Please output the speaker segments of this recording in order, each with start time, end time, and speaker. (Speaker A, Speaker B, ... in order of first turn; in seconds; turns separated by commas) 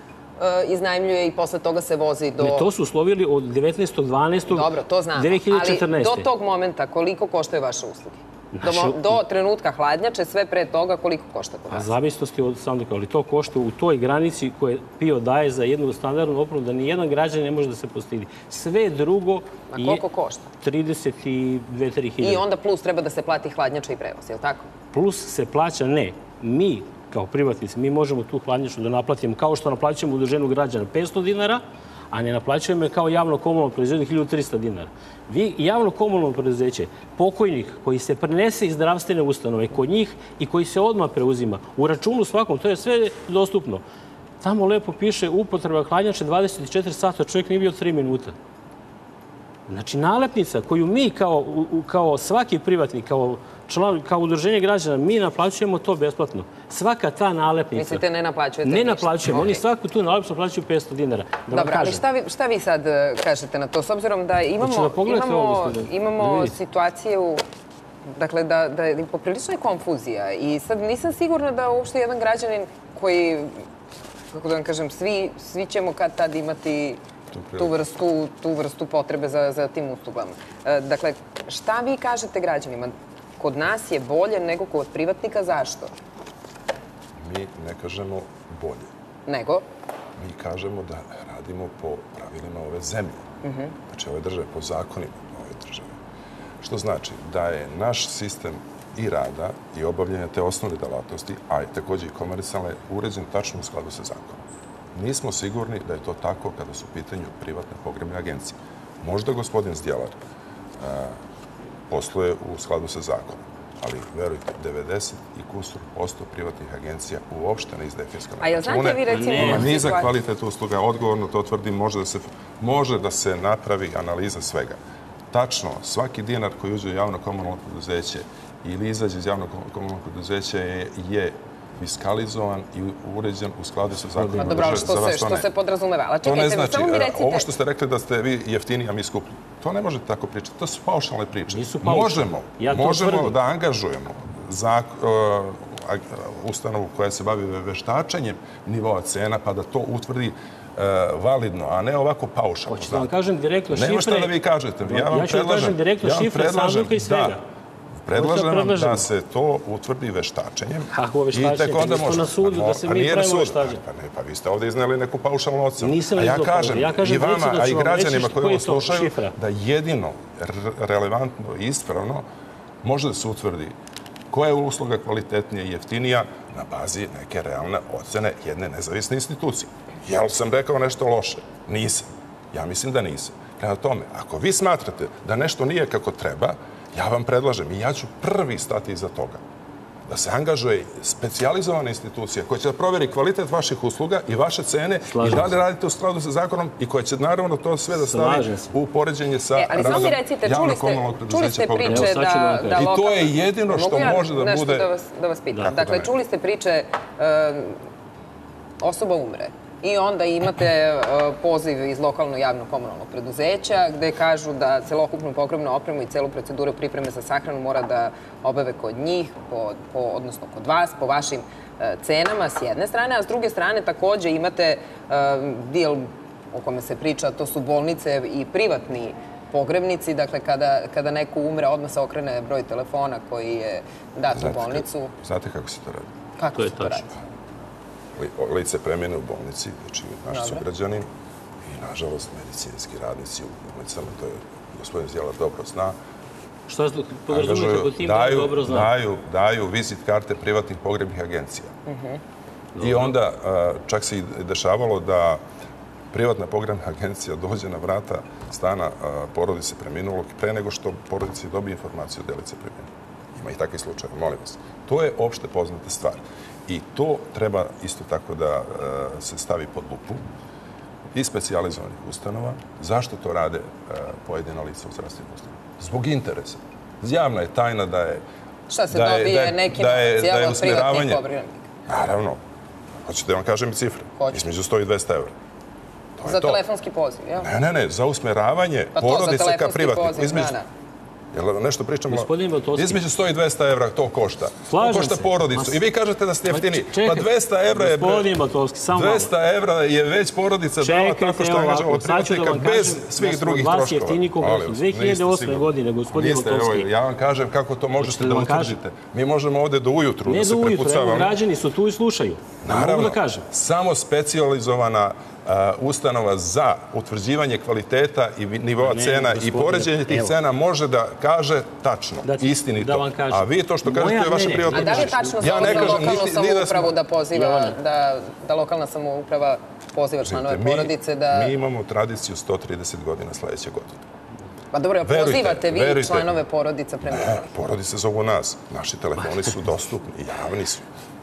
Speaker A: 0.4-2.7, Speaker B: 2.4-6.3, Speaker A: 4.5-11.9, Speaker B: 8.5-9.2, Speaker B: 11.7-20.0, Speaker A: 19.7-20.4, Speaker B: 20.6-22.4, Speaker A: 22.2-24.7, Speaker B: 24.9-43.8, Speaker B: 44.4-48.3, Speaker B: 49.7-58.0, Speaker A: 57.7-59.6, Speaker B: 58.6-62.0, Speaker A: 61.5-67.4, Speaker B: 64.6-66.5, Speaker A: 68.1-73.6, Speaker A: 74.3-77.0, Speaker C: 77.3-77.7, Speaker A: 77.6-85.9, Speaker C: 87.2-88.9, Speaker A: 89.2-89.7, Speaker C: 90.2-93.2, Speaker A: 93.4-93.7, Speaker C: 93.9-95.9, Speaker C: 96.6-110.2, Speaker C: 110.8-111.2, Speaker C: 111.9-124.8, Speaker A: 118.4-120.1, Speaker B: 119.1-119.8, Speaker C: 125.3-135.5, Speaker B: 134.1-134.9, Speaker A: 134.4-137.5, Speaker C: 136.2-153.1, Speaker B: 141.5-143.4, Speaker B: 152.7-154.3, Speaker C: 153.7-157.4, Speaker B: 154.8-157.4, Speaker C: 158.0-172.2, Speaker B: 158.1-159.0, Speaker B: 160.9-163.8, Speaker B: 165.8-169.3, Speaker C: 172.8-173.7, Speaker C: 174.3-189.4, Speaker C: 190.1-202.2, Speaker B: 195.1-195.5, Speaker B: 198.1-198.7, Speaker A: 199.5-207.8, Speaker B: 201.8-202.9, Speaker C: 202.7-204.9, Speaker C: 205.6-206.1, Speaker A: 208.8-235.1, Speaker C: 234.3-236.1, Speaker A: 236.4-237.1, Speaker B: 236.5-237.0, Speaker C: 238.2-241.1, Speaker A: 240.3-240.6, Speaker C: 241.6-245.9, Speaker B: 246.7-248.9, Speaker C: 247.3-251.7, Speaker A: 251.9-252.2, Speaker B: 252.8-253.1, Speaker C: 252.8-255.4, Speaker C: 256.1-270.2, Speaker C: 271.1-278.2, Speaker A: 278.7-281.7, Speaker C: 278.9-281.2, Speaker C: 281.9-282.4, Speaker C: 283.0-285.3, Speaker A: 284.2-284.5, Speaker C: 286.2-286.6, Speaker A: 286.2-287.5, Speaker C: 287.4-290.5, Speaker A: 288.9-290.7, Speaker C: 291.3-298.4, Speaker B: 292.1-293.0, Speaker B: 294.7-295.8, Speaker B: 296.5-299.3, Speaker C: 298.9-311.3, Speaker B: 300.8-306.9, Speaker B: 308.0-308.7, Speaker B: 310.2-313.4, Speaker C: 312.6-326.9, Speaker B: 318.8-320.4, Speaker B: 322.2-326.3, Speaker A: 324.7-331.5, Speaker B: 327.3-327.8, Speaker C: 330.2-334.0, Speaker A: 334.7-337.5, Speaker C: 335.0-336.4, Speaker C: 337.0-340.9